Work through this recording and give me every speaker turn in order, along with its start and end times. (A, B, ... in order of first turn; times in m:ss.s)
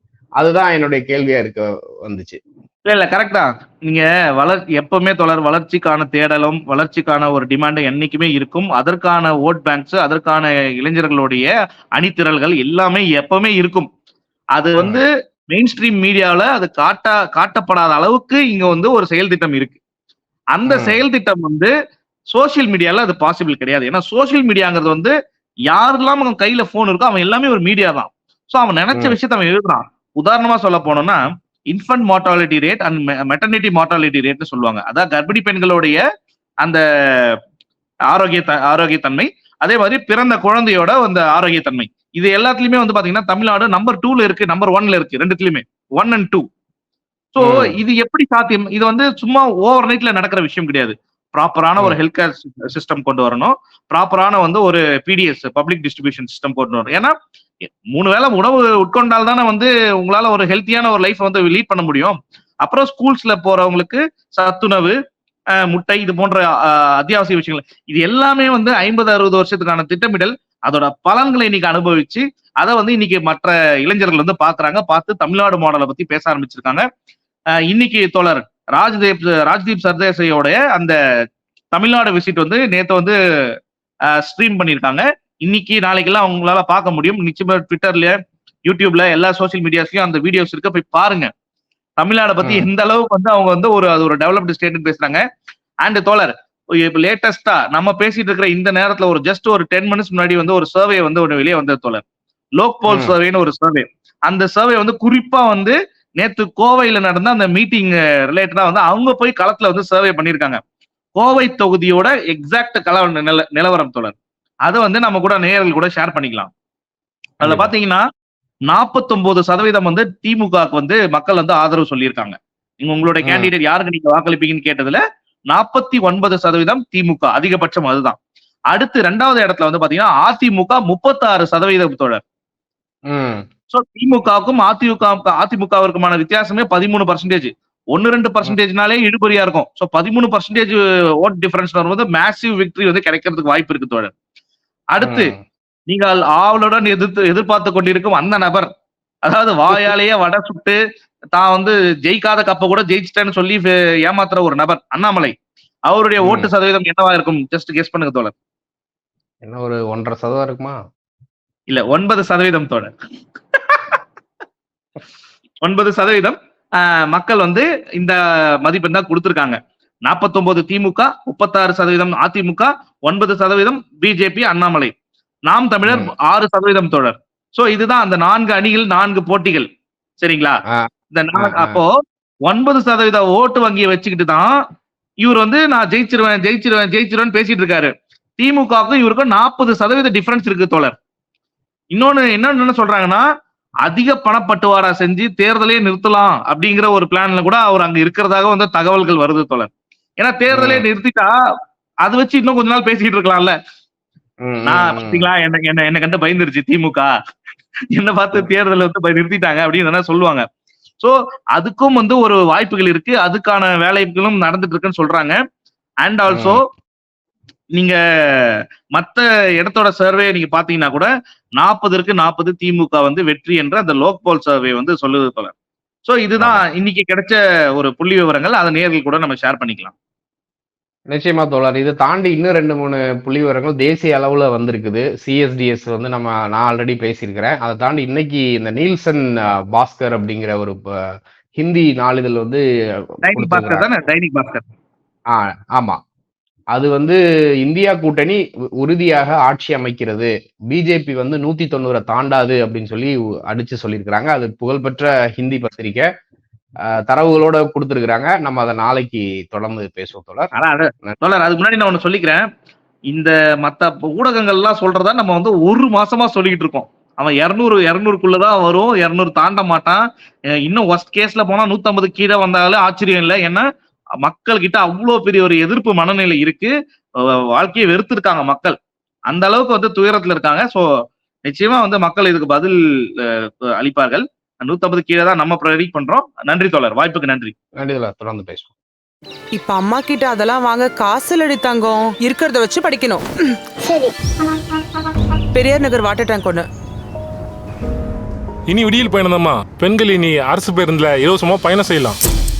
0:00.4-0:02.4 A
0:02.8-0:13.9 B
0:14.6-0:19.8 B
0:20.5-0:21.7 B
0:20.6-0:21.0 A
0:22.3-0:25.1 B
0:25.7-0:36.0 B
0:36.6-0:37.4 B
0:38.1-0:46.4 B
0:47.3-0:57.1 B
0:47.4-0:47.8 A
0:57.9-1:04.9 B
1:05.6-1:16.8 B
1:17.7-1:20.9 B
1:21.7-1:23.1 B
1:24.2-1:31.3 B
1:32.0-1:35.2 B
1:32.4-1:32.7 A
1:35.8-1:42.0 B
1:42.6-1:50.6 B
1:42.9-1:43.1 A
1:51.1-1:56.5 B
1:57.4-1:57.7 A
1:57.4-1:58.0 B
1:58.7-2:05.0 B
2:03.2-2:03.5 A
2:05.5-2:08.2 B
2:08.7-2:12.2 B
2:13.1-2:13.4 A
2:13.7-2:24.1 B
2:24.9-2:25.3 B
2:25.0-2:25.4 A
2:25.9-2:28.7 B
2:29.2-2:30.8 B
2:31.3-2:35.3 B
2:35.9-2:38.3 B
2:36.2-2:36.5 A
2:39.4-2:40.8 A
2:41.7-2:42.9 B
2:43.5-2:44.0 B
2:45.6-2:54.9 B
2:55.5-2:59.7 B
3:00.2-3:00.6 B
3:00.7-3:01.8 A
3:01.1-3:02.0 B
3:02.5-3:04.5 B
3:05.2-3:11.0 B
3:11.9-3:13.2 B
3:13.8-3:21.3 B
3:20.5-3:20.8 A
3:22.0-3:23.5 B
3:24.4-3:25.3 A
3:24.7-3:27.1 B
3:27.9-3:30.4 B
3:31.0-3:35.4 B
3:36.0-3:36.6 B
3:36.3-3:36.6 A
3:37.8-3:41.1 B
3:41.6-3:45.5 B
3:46.0-3:49.9 B
3:46.4-3:46.6 A
3:51.1-4:00.9 A
4:01.6-4:02.6 A
4:03.2-4:03.9 A
4:03.2-4:04.6 B
4:05.3-4:06.0 A
4:06.7-4:16.0 A
4:17.1-4:20.5 A
4:20.5-4:22.4 B
4:23.1-4:30.0 B
4:30.6-4:33.6 B
4:34.2-4:36.7 B
4:37.2-4:38.8 B
4:39.3-4:40.8 B
4:41.4-4:47.5 B
4:47.8-4:48.7 A
4:49.5-4:53.2 C
4:55.5-4:56.6 C
4:58.7-5:02.2 D